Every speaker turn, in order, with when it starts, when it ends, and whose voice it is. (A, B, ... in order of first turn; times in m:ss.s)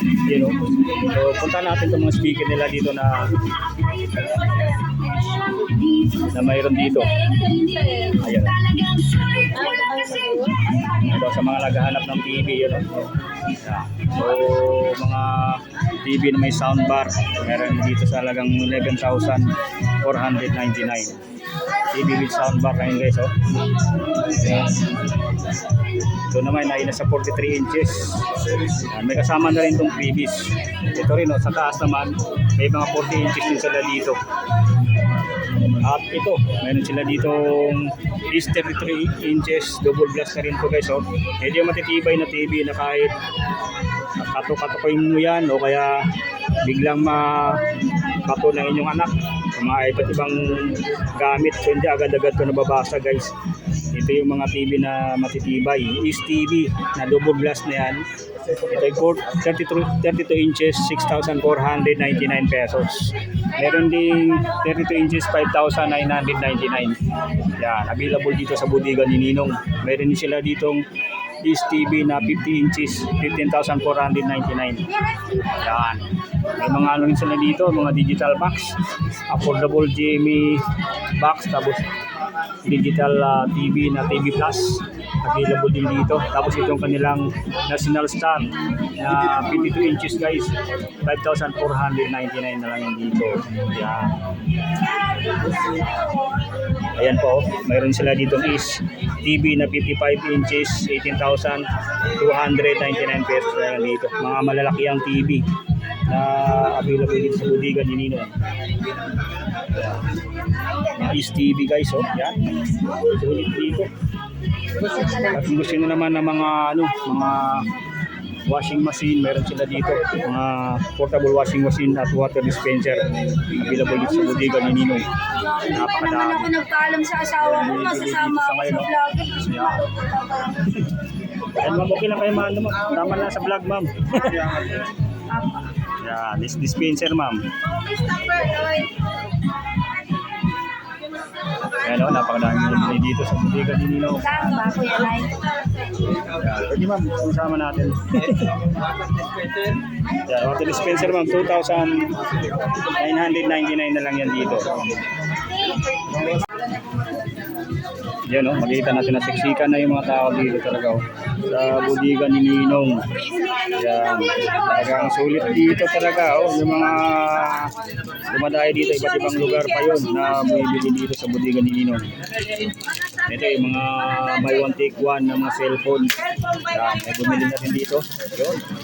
0:00.3-0:03.3 A
0:06.2-0:07.1 A
0:08.0-0:08.6 A
0:09.7-0:10.5 B
0:11.0-0:12.9 A
0:13.6-0:19.5 A
0:20.0-0:21.2 A
0:21.9-0:23.3 A
0:26.3-0:28.3 A
0:28.9-0:34.2 A
0:35.8-0:43.1 A
0:44.2-0:46.0 A
0:46.6-0:47.6 A
0:48.3-0:53.3 A
0:53.9-0:58.0 A
0:58.7-1:07.0 A
1:07.6-1:10.8 A
1:11.4-1:14.9 A
1:15.6-1:16.0 A
1:16.6-1:18.7 A
1:19.3-1:20.6 A
1:21.2-1:21.9 A
1:22.7-1:34.1 A
1:37.0-1:41.6 A
1:42.2-1:45.4 A
1:46.1-1:48.3 A
1:51.0-1:52.4 A
1:53.1-1:53.9 A
1:55.2-1:57.7 A
1:58.5-2:05.1 A
2:05.7-2:06.6 A
2:05.7-2:10.6 B
2:07.4-2:09.9 A
2:11.6-2:14.8 A
2:16.0-2:17.4 A
2:21.8-2:24.7 A
2:24.3-2:25.4 B
2:26.4-2:28.5 A
2:30.3-2:32.1 A
2:32.9-2:34.7 A
2:38.3-2:43.0 A
2:43.7-2:47.7 A
2:48.3-2:52.1 A
2:53.3-2:56.2 A
2:56.7-2:58.6 A